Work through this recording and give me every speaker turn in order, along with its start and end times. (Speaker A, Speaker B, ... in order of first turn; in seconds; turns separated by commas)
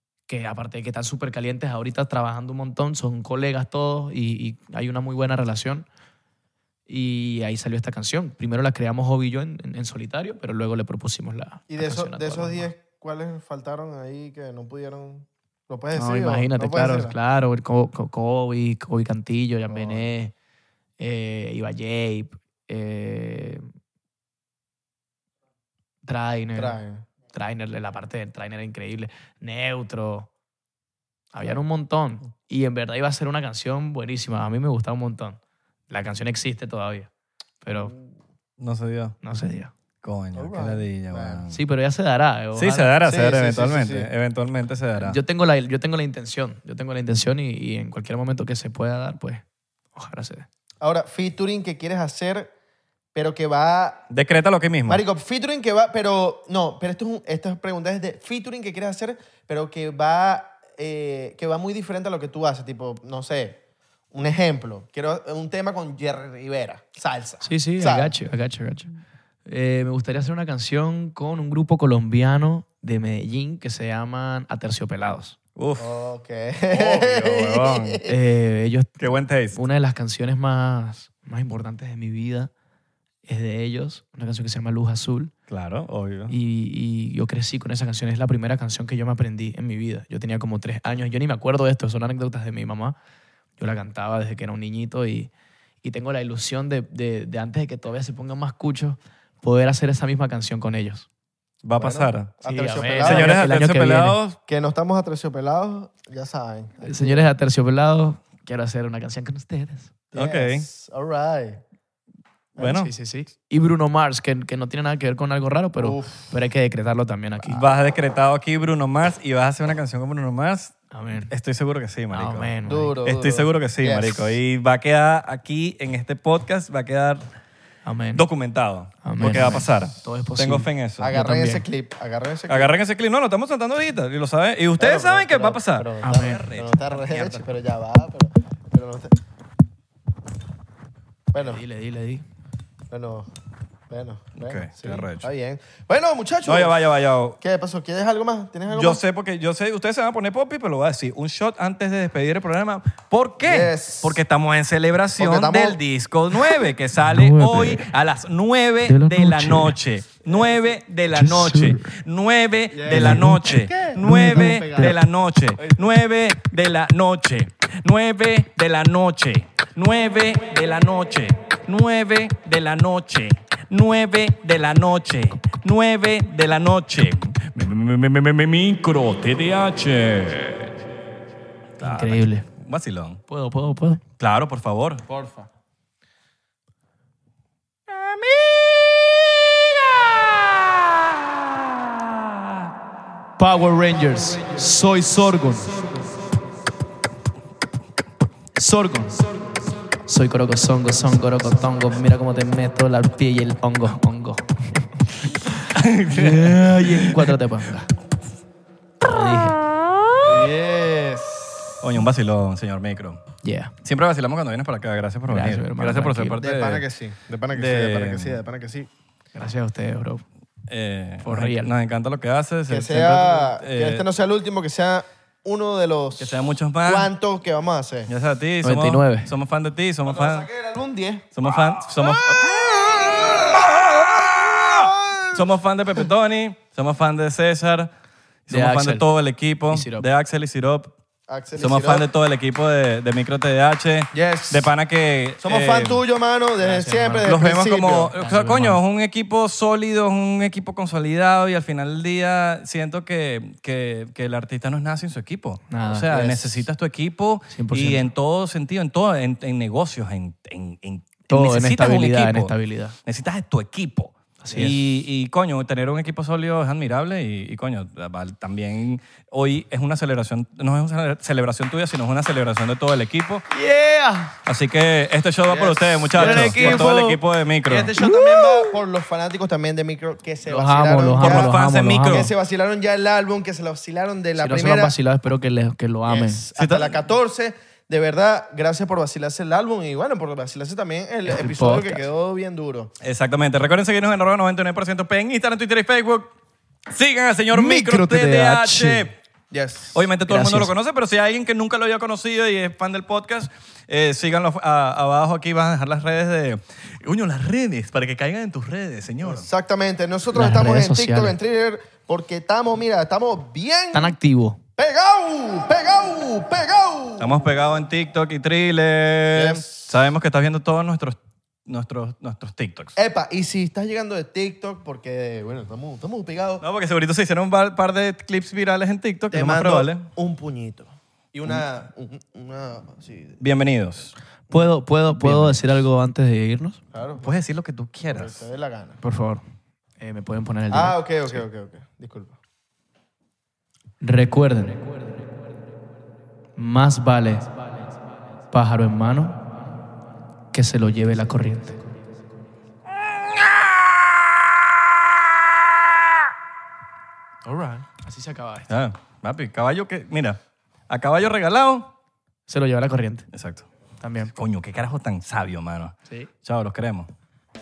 Speaker A: 0.3-5.9, Speaker A: 6.9-12.7, Speaker B: 11.7-17.2, Speaker A: 15.9-20.3, Speaker B: 19.7-20.1, Speaker A: 21.0-23.7, Speaker A: 26.0-26.8, Speaker B: 26.6-27.1, Speaker A: 27.3-30.3, Speaker A: 31.3-35.4, Speaker A: 35.9-37.1, Speaker A: 37.6-38.0, Speaker C: 38.6-39.2, Speaker A: 39.2-39.7, Speaker C: 40.0-41.6, Speaker B: 40.3-41.4, Speaker A: 41.5-43.0, Speaker C: 42.5-45.2, Speaker B: 43.0-44.1, Speaker A: 45.0-50.5, Speaker B: 50.8-52.5, Speaker B: 53.1-54.0, Speaker C: 54.1-55.0, Speaker B: 54.9-63.6, Speaker B: 64.1-68.2, Speaker A: 67.4-75.4, Speaker C: 75.6-75.9, Speaker B: 75.8-78.2, Speaker C: 76.7-78.0, Speaker A: 78.1-79.0, Speaker C: 79.0-79.6, Speaker A: 79.5-82.5, Speaker A: 83.2-85.3, Speaker C: 85.5-86.3, Speaker A: 86.3-93.0, Speaker A: 93.6-95.3, Speaker A: 95.8-101.1, Speaker C: 101.6-102.3, Speaker B: 101.8-103.4, Speaker A: 102.5-104.2, Speaker C: 103.0-104.4, Speaker B: 104.5-107.3, Speaker A: 106.8-109.9, Speaker B: 110.1-111.6, Speaker C: 110.1-110.7, Speaker C: 112.6-112.9, Speaker A: 112.6-117.6, Speaker B: 115.8-116.3, Speaker C: 117.5-122.5, Speaker A: 120.9-121.3, Speaker A: 122.1-123.0, Speaker B: 122.7-124.4, Speaker C: 123.0-127.3, Speaker A: 127.8-128.2, Speaker C: 128.2-131.2, Speaker A: 129.0-131.6, Speaker B: 131.0-132.7, Speaker C: 132.5-137.4, Speaker B: 134.8-139.2, Speaker A: 136.0-136.4, Speaker B: 141.3-141.6, Speaker A: 141.4-142.2, Speaker B: 142.9-143.3, Speaker B: 143.9-146.8, Speaker C: 144.4-145.3, Speaker C: 146.4-147.4, Speaker B: 147.4-149.0, Speaker C: 148.7-180.7, Speaker B: 153.5-154.2, Speaker B: 155.2-155.8, Speaker A: 157.0-157.9, Speaker A: 158.9-159.8, Speaker B: 160.3-160.6, Speaker A: 161.2-161.9, Speaker B: 162.7-165.0, Speaker A: 162.9-164.9, Speaker C: 181.8-183.2, Speaker A: 181.8-182.5, Speaker A: 183.3-184.0, Speaker C: 184.2-185.0, Speaker B: 185.1-185.5, Speaker C: 187.9-189.6, Speaker A: 193.4-195.8, Speaker A: 198.6-199.2, Speaker A: 200.1-204.9, Speaker C: 205.7-207.4, Speaker A: 206.1-207.9, Speaker A: 209.0-209.6, Speaker B: 210.2-211.8, Speaker C: 211.8-213.2, Speaker A: 213.4-213.7, Speaker C: 213.8-216.8, Speaker A: 215.3-216.4, Speaker B: 216.4-218.9, Speaker C: 217.5-218.4, Speaker A: 219.3-220.2, Speaker C: 220.7-224.0, Speaker A: 221.2-221.7, Speaker B: 222.7-228.1, Speaker C: 226.2-227.1, Speaker C: 228.1-230.5, Speaker A: 228.6-229.3, Speaker B: 230.1-231.3, Speaker C: 231.3-237.9, Speaker B: 232.0-235.4, Speaker C: 238.5-240.9, Speaker A: 238.5-239.0, Speaker A: 239.7-240.1, Speaker B: 241.3-242.1, Speaker C: 241.6-246.0, Speaker B: 244.1-244.7, Speaker B: 245.4-248.2, Speaker A: 246.6-247.4, Speaker C: 247.2-273.5, Speaker A: 248.2-248.8, Speaker A: 255.7-256.1, Speaker B: 256.1-256.6, Speaker A: 257.5-258.1, Speaker A: 261.3-263.0, Speaker A: 264.4-264.8, Speaker A: 273.5-274.4, Speaker C: 274.5-277.9, Speaker B: 275.5-284.9, Speaker A: 276.2-277.2, Speaker A: 278.0-278.8, Speaker A: 280.4-282.3, Speaker C: 281.2-282.3, Speaker A: 284.4-286.5, Speaker B: 286.1-292.9, Speaker C: 286.6-286.9, Speaker A: 291.2-292.1, Speaker C: 293.0-296.3, Speaker C: 296.9-299.1, Speaker A: 297.5-299.1, Speaker B: 299.5-300.0, Speaker C: 299.9-309.5, Speaker A: 300.3-300.7, Speaker B: 309.2-314.1, Speaker A: 310.3-311.4, Speaker A: 313.9-314.6, Speaker B: 314.8-317.5, Speaker C: 317.2-323.0, Speaker B: 319.3-320.0, Speaker B: 323.0-326.6, Speaker C: 326.6-330.1, Speaker B: 329.3-333.4, Speaker C: 333.4-334.1, Speaker A: 334.5-336.8, Speaker B: 335.2-335.5, Speaker B: 336.9-337.3, Speaker C: 337.2-338.5, Speaker B: 338.1-339.0, Speaker A: 339.0-339.4, Speaker A: 340.0-341.4, Speaker B: 340.7-342.4, Speaker A: 344.0-344.9, Speaker A: 346.6-347.5, Speaker A: 348.5-349.4, Speaker A: 350.5-351.8, Speaker A: 357.4-358.7, Speaker C: 358.7-361.9, Speaker A: 362.5-363.3, Speaker C: 363.3-363.7, Speaker A: 364.0-364.3, Speaker C: 364.4-367.1